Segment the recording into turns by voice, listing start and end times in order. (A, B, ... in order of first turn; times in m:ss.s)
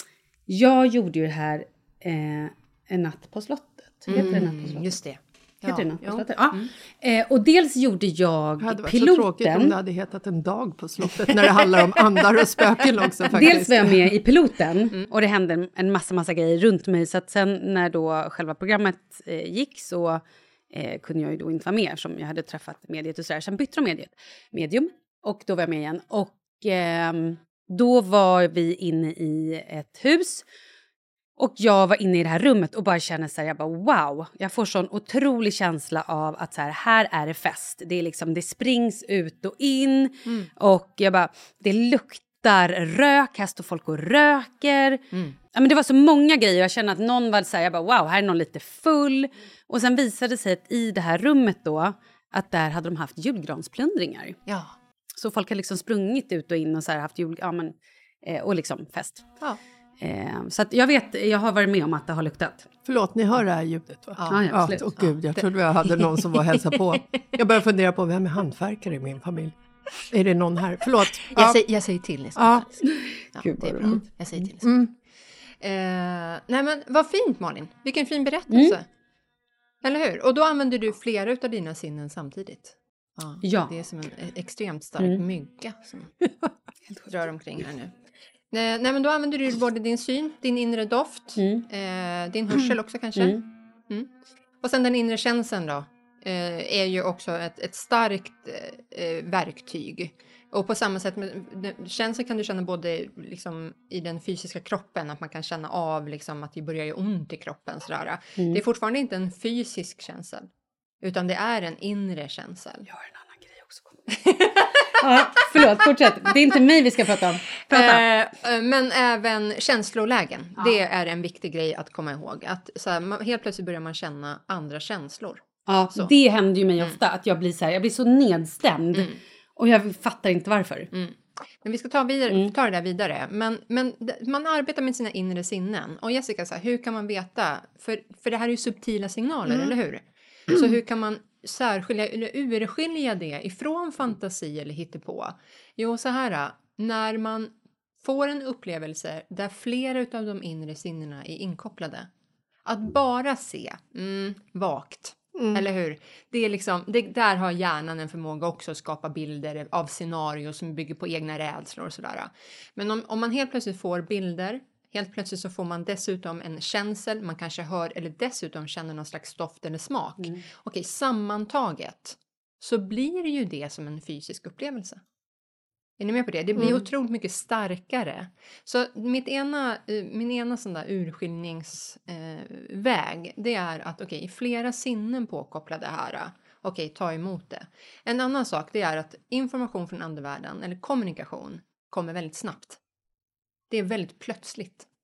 0:00.5-0:04.9 A
0:04.1-0:06.7 B
0:04.1-0:04.6 C
0:05.6-0:09.8 A
0:08.6-0:14.1 C
0:13.3-0:30.5 A
0:31.4-0:45.0 A
0:45.5-0:54.4 A
0:54.5-0:54.8 B
0:55.2-0:59.3 A
1:00.0-1:02.7 A
1:02.9-1:09.5 C
1:04.2-1:06.0 B
1:04.3-1:04.8 A
1:10.1-1:11.6 C
1:11.3-1:14.8 B
1:12.4-1:12.7 C
1:13.4-1:14.0 C
1:14.5-1:14.9 C
1:15.6-1:18.9 B
1:18.5-1:18.8 A
1:19.8-1:26.1 B
1:23.4-1:23.7 A
1:27.0-1:27.9 B
1:28.5-1:34.1 B
1:31.4-1:31.7 A
1:33.2-1:33.4 A
1:34.6-1:50.5 B
1:51.0-1:52.9 B
1:53.3-1:53.7 C
1:54.1-1:55.4 B
1:55.0-1:58.1 A
1:57.7-2:06.1 B
2:05.7-2:10.9 A
2:10.9-2:32.1 B
2:32.7-2:55.0 B
2:35.4-2:35.6 C
2:56.0-3:12.8 B
3:13.7-3:14.9 B